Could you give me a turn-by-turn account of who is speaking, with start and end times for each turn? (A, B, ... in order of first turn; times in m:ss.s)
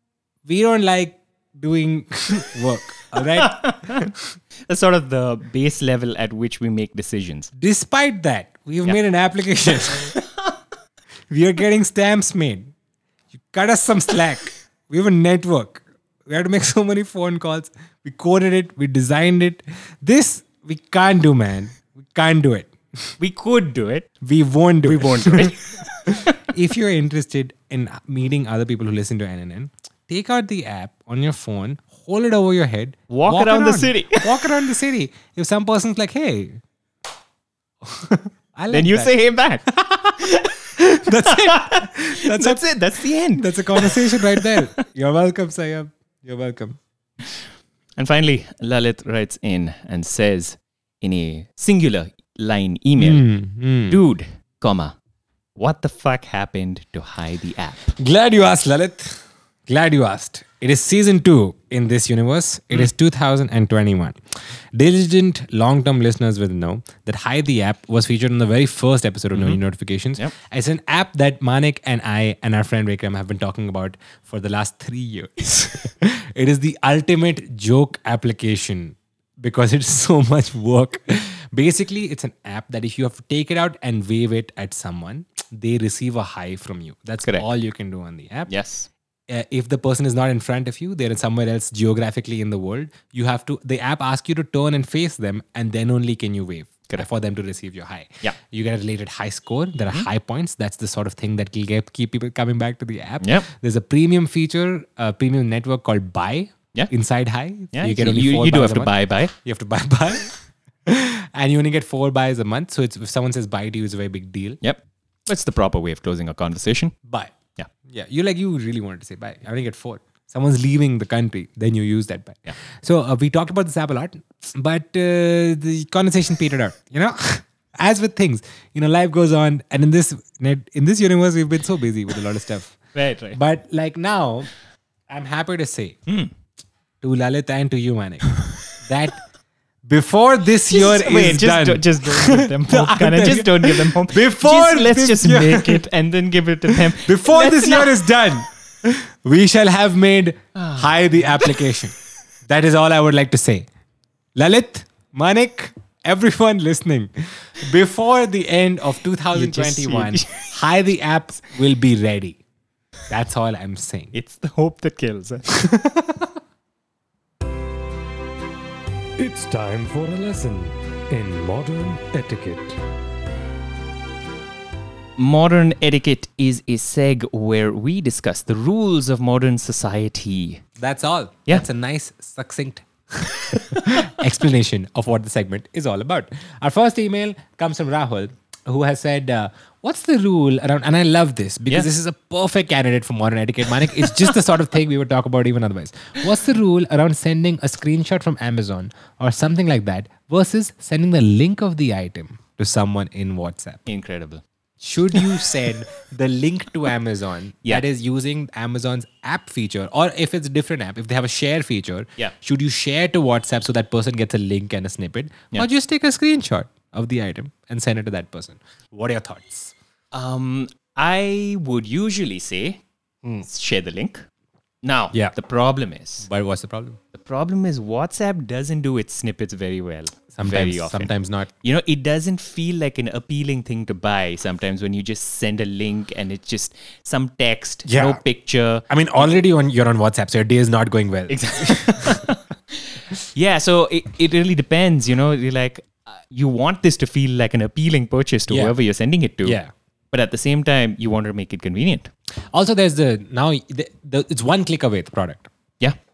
0:00.5-0:04.1 A
0:03.3-0:04.1 B
0:04.7-0:07.5 B
0:07.6-0:10.1 A
0:10.2-0:10.5 B
0:11.3-0:12.7 A
0:13.5-0:23.1 A
0:23.2-0:24.1 B
0:24.2-0:36.6 A
0:24.8-0:26.4 B
0:33.1-0:34.5 B
0:37.8-0:39.1 A
0:38.7-0:40.5 B
0:39.7-0:42.6 A
0:41.2-0:44.8 B
0:43.4-0:46.8 A
0:48.0-0:53.3 B
0:53.0-0:54.0 A
0:53.9-0:55.0 B
0:55.6-0:58.0 B
0:58.0-1:04.2 A
1:04.7-1:28.5 A
1:09.3-1:09.6 B
1:28.5-1:28.9 B
1:29.3-1:50.3 A
1:43.2-1:43.5 B
1:47.7-1:49.3 B
1:50.8-1:54.6 A
1:54.6-1:57.0 B
1:57.1-2:12.8 A
2:13.0-2:13.4 B
2:13.3-2:14.5 A
2:15.1-2:16.0 A
2:16.1-2:16.3 B
2:17.0-2:19.2 A
2:19.9-2:25.8 A
2:20.7-2:28.0 B
2:26.7-2:32.0 A
2:30.6-2:31.4 B
2:32.5-2:33.7 A
2:34.4-2:42.4 A
2:39.3-2:40.5 B
2:43.1-2:44.1 A
2:44.1-2:45.5 B
2:45.5-2:46.3 A
2:49.2-2:52.8 C
2:55.2-3:00.6 B
3:00.8-3:23.8 A
3:23.9-3:24.4 B
3:24.8-3:39.7 A
3:40.1-3:42.8 B
3:43.4-3:44.3 B
3:44.8-3:46.3 B
3:46.2-3:47.0 A
3:47.1-3:51.1 B
3:50.3-3:51.5 A
3:51.6-3:59.4 B
3:57.9-3:58.2 A
3:58.9-4:02.3 A
4:01.3-4:09.6 B
4:08.5-4:08.8 A
4:09.4-4:09.7 A
4:10.1-4:12.1 B
4:12.5-4:15.5 A